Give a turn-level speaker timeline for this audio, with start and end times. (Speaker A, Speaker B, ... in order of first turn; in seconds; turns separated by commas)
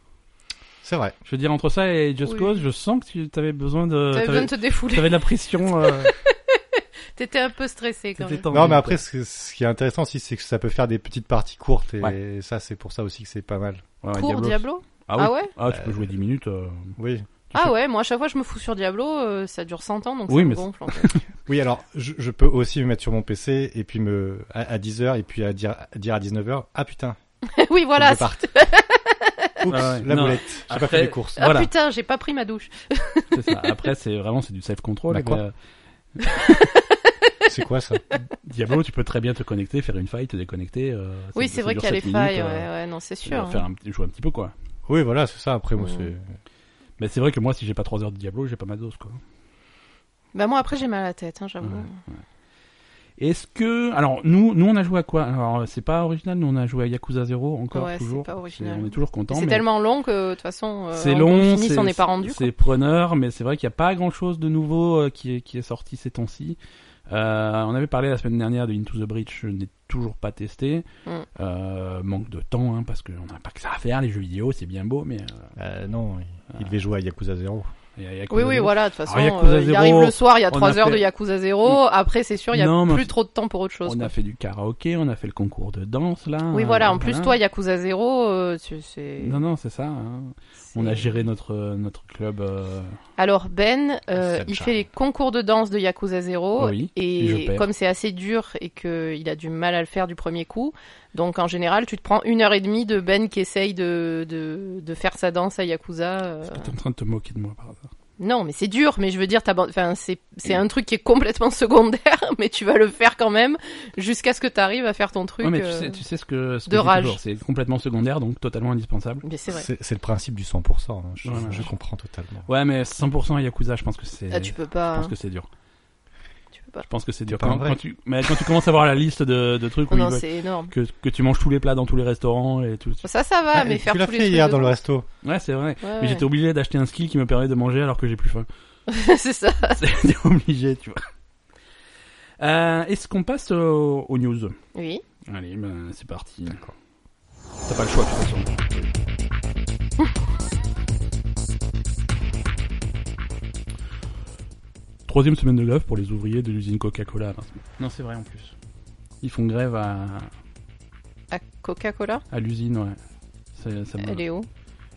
Speaker A: 0.8-1.1, Speaker B: 1.2-6.1, Speaker C: 2.2-2.6, Speaker C: 4.1-5.2, Speaker C: 5.8-8.4, Speaker B: 8.2-9.0, Speaker A: 8.5-13.8, Speaker B: 14.0-16.9, Speaker C: 14.1-15.5, Speaker A: 15.7-16.1, Speaker A: 17.0-17.3, Speaker C: 17.5-21.1, Speaker B: 20.3-21.2, Speaker A: 21.5-27.2, Speaker C: 27.4-29.6, Speaker A: 27.9-28.5, Speaker A: 29.6-31.5, Speaker B: 29.7-31.7, Speaker C: 31.4-33.9, Speaker B: 33.3-35.5, Speaker A: 35.1-35.4, Speaker C: 36.2-37.3, Speaker A: 37.5-38.0, Speaker B: 38.4-42.7, Speaker C: 41.4-43.6, Speaker B: 43.2-44.5, Speaker A: 44.9-46.3, Speaker C: 45.8-46.1, Speaker B: 47.0-49.2, Speaker C: 50.3-52.0, Speaker B: 51.6-52.2, Speaker B: 53.2-59.7, Speaker C: 57.7-62.5, Speaker B: 60.9-66.6, Speaker B: 67.1-75.5, Speaker A: 75.5-77.7, Speaker B: 78.0-81.1, Speaker C: 78.3-84.1, Speaker B: 82.5-83.1, Speaker B: 83.8-87.3, Speaker C: 86.5-89.4, Speaker B: 89.2-93.0, Speaker C: 90.7-91.2, Speaker C: 93.2-106.7, Speaker A: 94.2-94.8, Speaker B: 96.6-97.6, Speaker B: 106.5-107.9, Speaker C: 108.2-116.0, Speaker B: 115.4-119.2, Speaker C: 116.7-117.2, Speaker C: 119.2-119.7, Speaker A: 119.5-122.5, Speaker B: 121.2-121.7, Speaker B: 122.5-125.5, Speaker C: 124.3-125.1, Speaker C: 126.6-126.8, Speaker B: 126.8-133.0, Speaker A: 127.3-127.8, Speaker C: 129.9-130.7, Speaker C: 133.0-134.7, Speaker A: 133.5-135.1, Speaker B: 135.2-138.5, Speaker C: 135.8-136.2, Speaker C: 138.9-139.8, Speaker B: 139.8-141.1, Speaker B: 142.4-144.6, Speaker C: 144.7-145.0, Speaker B: 145.2-146.6, Speaker B: 147.7-148.7, Speaker B: 155.1-158.5, Speaker B: 159.2-160.3, Speaker C: 161.3-162.2, Speaker B: 162.3-163.0, Speaker B: 163.6-164.2, Speaker C: 164.0-164.5